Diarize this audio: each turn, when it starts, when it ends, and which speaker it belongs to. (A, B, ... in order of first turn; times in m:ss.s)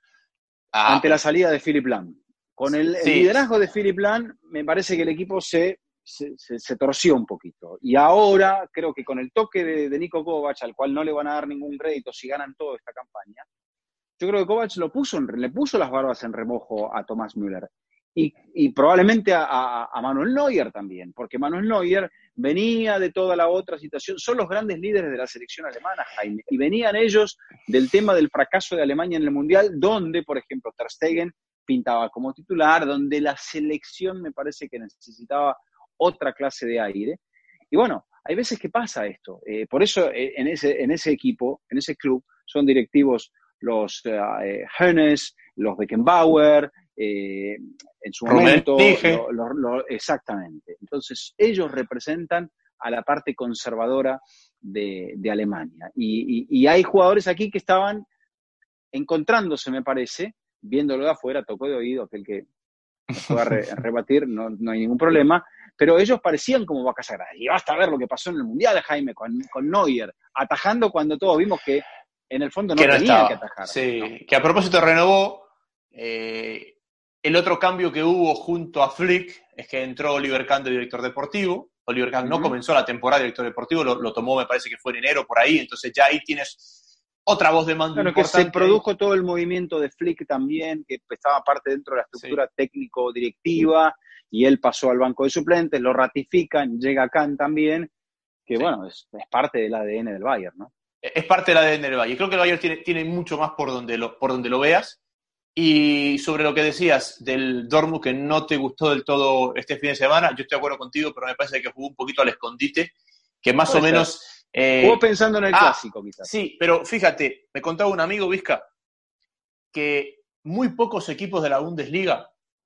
0:00.7-0:01.2 A
0:00.9-0:13.4 B
0:03.0-0:03.4 A
0:14.2-0:37.2 B
0:37.7-0:58.1 B
0:48.2-0:49.2 A
0:58.9-1:02.5 B
1:03.1-1:14.1 B
1:12.8-1:28.8 A
1:22.2-1:22.5 B
1:28.0-1:37.9 B
1:38.4-1:40.7 B
1:41.0-1:45.0 A
1:45.5-1:55.0 A
1:53.7-1:54.1 B
1:54.8-1:56.3 B
1:55.5-1:58.6 A
1:59.7-2:02.3 A